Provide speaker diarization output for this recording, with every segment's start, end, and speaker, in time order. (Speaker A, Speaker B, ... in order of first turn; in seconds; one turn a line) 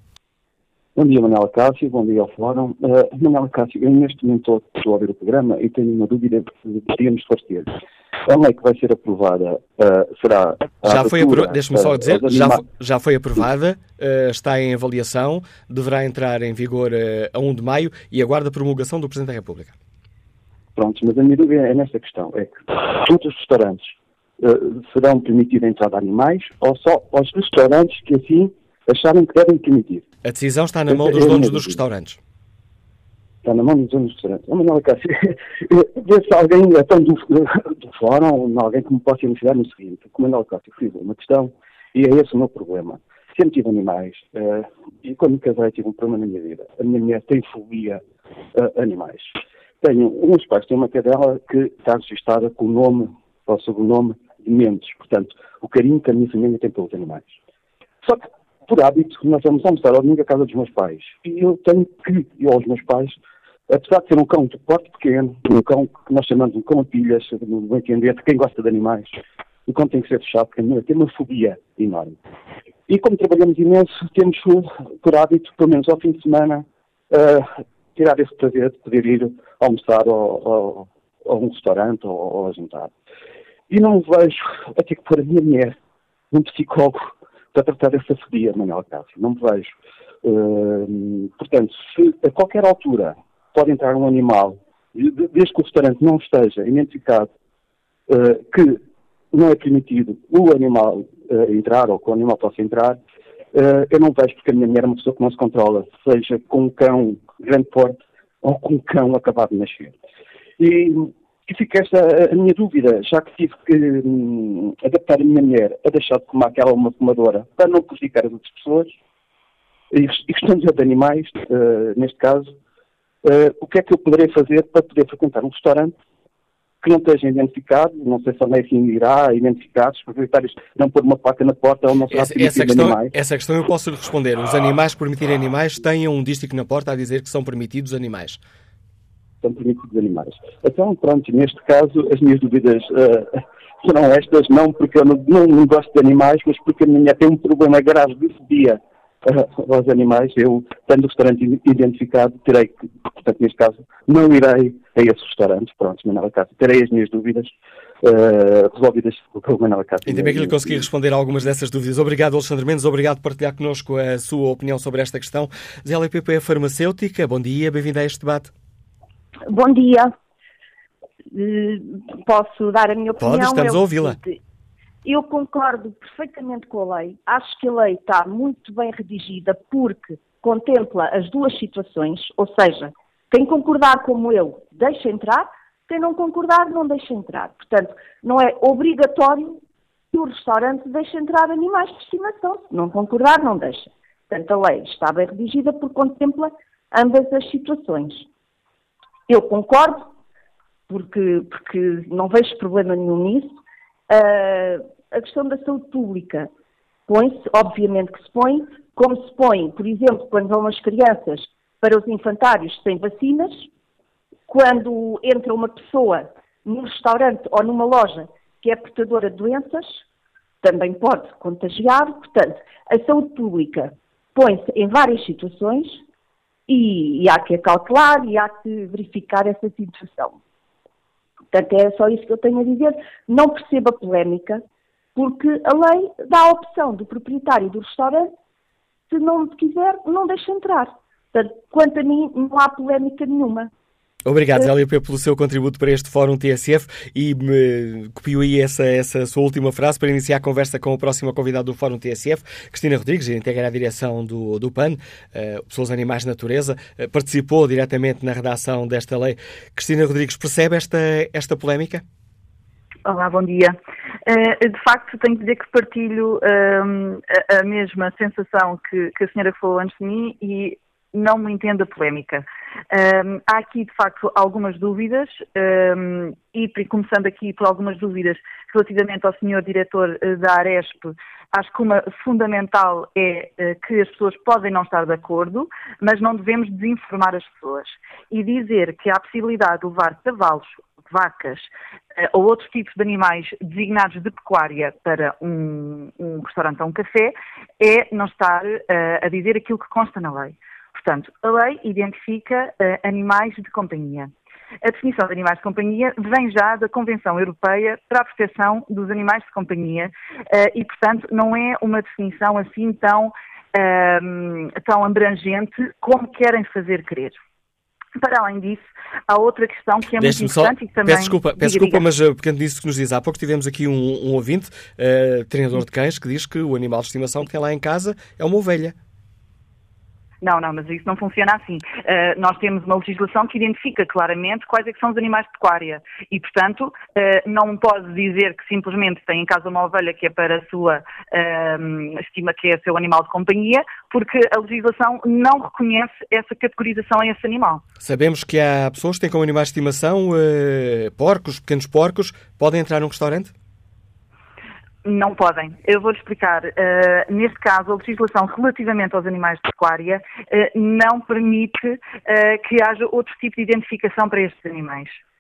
Speaker A: 1.0-12.7
Speaker B: 10.8-19.8
Speaker A: 20.8-30.1
Speaker B: 30.2-32.2
Speaker A: 30.9-31.8
Speaker A: 33.4-48.0
Speaker A: 48.5-57.4
Speaker A: 58.0-63.2
Speaker A: 63.7-72.2
Speaker A: 72.9-82.9
Speaker A: 83.7-85.8
Speaker A: 86.3-97.3
Speaker A: 98.1-103.0
Speaker A: 103.5-110.0
Speaker A: 110.6-119.0
Speaker A: 119.9-122.5
Speaker A: 123.2-125.9
Speaker A: 126.8-133.1
Speaker B: 132.1-138.4
Speaker A: 139.4-160.8
Speaker B: 160.1-168.5
Speaker C: 169.5-170.1
Speaker C: 171.3-174.4
Speaker B: 173.2-174.2
Speaker C: 175.0-189.6
Speaker C: 190.1-198.3
Speaker C: 199.3-200.1
Speaker C: 200.9-203.6
Speaker C: 204.1-206.5
Speaker C: 207.1-213.7
Speaker C: 214.5-220.0
Speaker C: 220.6-226.0
Speaker C: 226.7-230.4
Speaker C: 231.5-234.6
Speaker C: 235.2-238.3
Speaker C: 239.1-243.7
Speaker B: 244.3-262.0
Speaker D: 263.1-304.3
Speaker D: 304.8-317.4
Speaker D: 318.2-322.1
Speaker B: 320.2-328.9
Speaker D: 330.4-347.8
Speaker B: 348.0-353.5
Speaker D: 355.1-365.2